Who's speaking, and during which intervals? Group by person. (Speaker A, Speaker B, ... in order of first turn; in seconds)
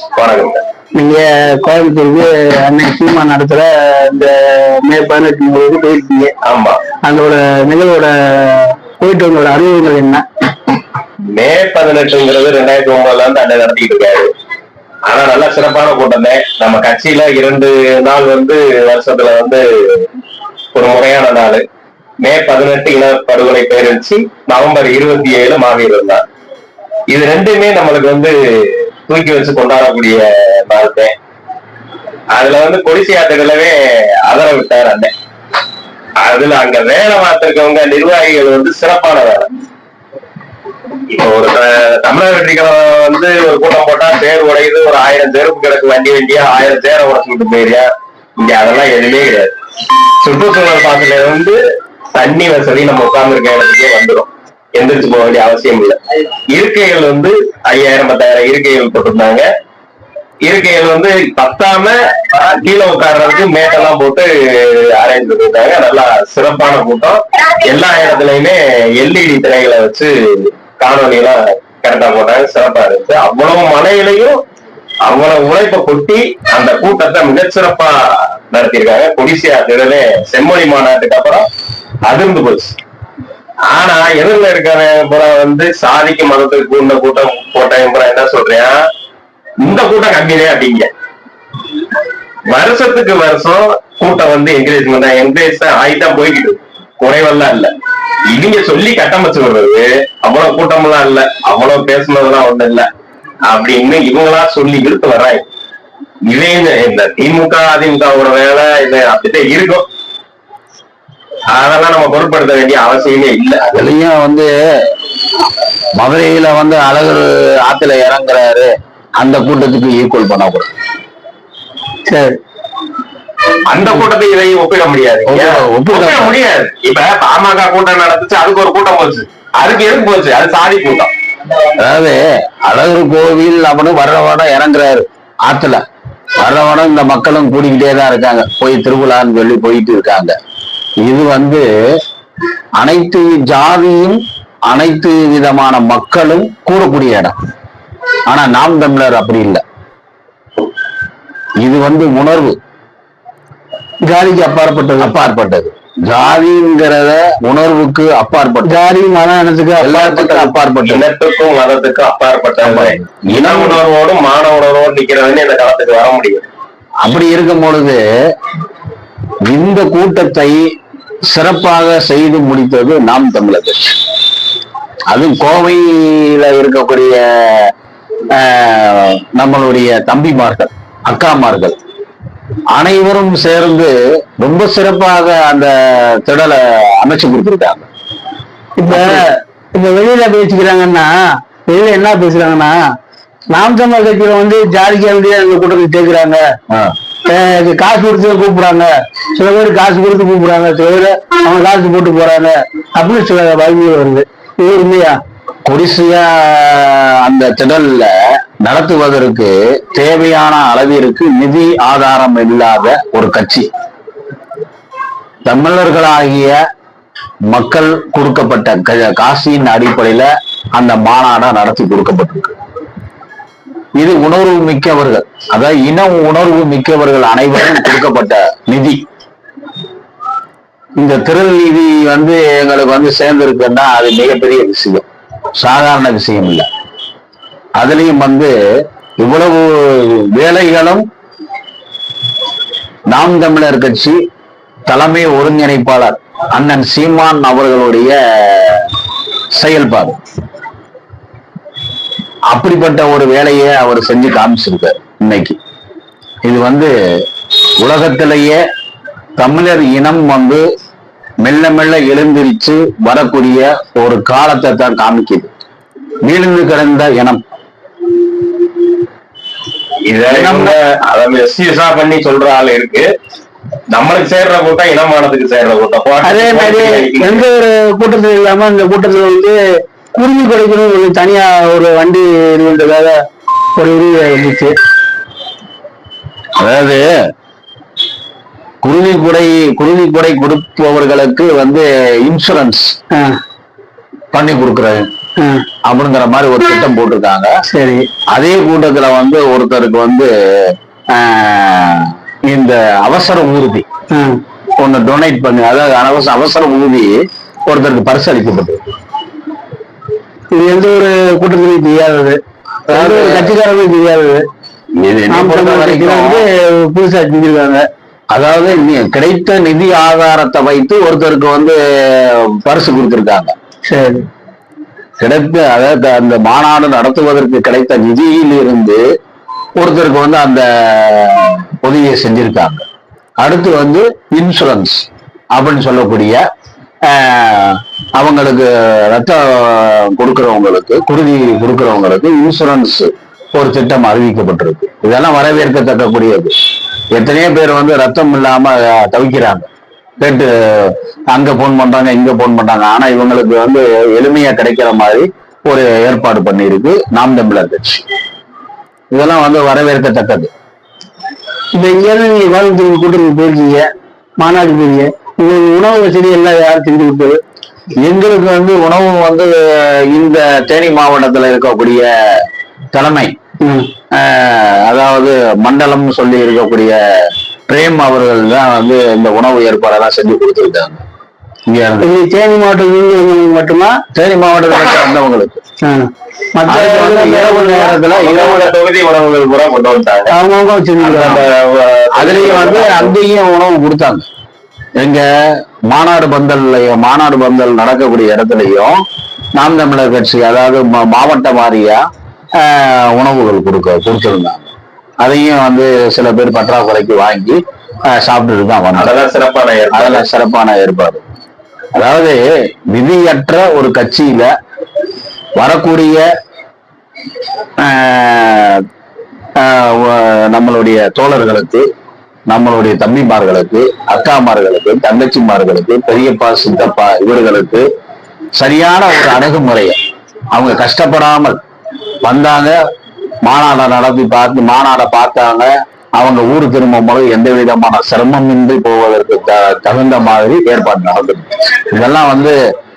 Speaker A: 0.1-0.6, 6.4-6.8, 11.3-14.3, 15.1-20.1, 20.7-21.6, 22.2-26.2, 27.1-31.1, 32.3-35.1, 36.2-39.5, 41.1-47.9, 48.4-49.5, 50.2-51.6, 52.1-56.0, 56.5-59.5, 60.5-74.4, 75.1-81.5, 82.1-82.8, 83.7-88.8, 89.6-90.9, 92.5-97.7, 98.3-102.9, 103.5-105.5, 106.3-109.9, 111.5-113.9, 123.7-131.1, 160.3-166.5, 270.1-273.1, 273.9-277.5, 388.0-390.3, 391.0-393.2, 408.9-410.2
Speaker B: 0.9-6.3, 7.0-10.2, 122.1-122.4, 154.0-155.2, 158.7-160.3, 188.8-191.1, 191.7-192.8, 193.5-196.4, 197.3-205.2, 276.2-279.6, 280.2-283.2, 283.8-284.8, 295.4-295.6, 297.7-298.1, 304.1-304.4, 310.5-312.4, 312.9-314.4, 315.3-317.9, 323.9-324.2, 361.8-363.9, 364.4-367.4, 373.6-373.9, 382.0-383.9, 385.8-388.0, 390.3-391.4
Speaker C: 113.7-114.5, 116.0-120.7, 125.3-126.4, 131.7-135.8, 136.4-140.4, 141.0-141.7, 142.8-147.4, 148.3-149.6, 151.6-152.6, 155.0-158.8, 159.8-161.0, 162.6-163.8, 167.0-168.0, 169.4-170.6, 171.3-174.0, 175.1-177.7, 178.3-181.8, 182.8-187.9, 188.9-189.2, 205.7-213.7, 215.5-216.6, 217.5-222.6, 224.0-229.0, 231.0-235.1, 235.6-236.7, 237.8-238.5, 239.2-241.1, 243.1-244.2, 244.9-248.9, 249.5-250.2, 252.5-255.6, 256.4-256.9, 257.8-258.6, 259.4-260.6, 261.4-265.5, 266.2-267.4, 270.3-270.7, 286.6-287.1, 288.8-293.0, 294.3-295.1, 295.9-297.5, 298.3-303.9, 304.8-307.1, 307.7-308.8, 312.9-313.5, 315.0-316.4, 318.3-323.6, 325.2-329.0, 329.8-332.8, 333.4-336.4, 337.1-346.6, 347.1-349.7, 350.2-358.1, 359.1-360.5, 368.0-373.3, 374.1-381.0, 381.7-382.1, 384.1-385.6, 386.7-388.7, 392.1-394.3, 395.0-395.3, 395.9-399.0, 399.6-402.0, 402.6-409.1, 409.9-411.3, 411.9-414.5, 415.6-416.3, 417.8-418.8, 419.6-421.9, 422.5-427.9, 428.6-430.0, 430.5-431.6, 432.2-432.8, 433.4-442.6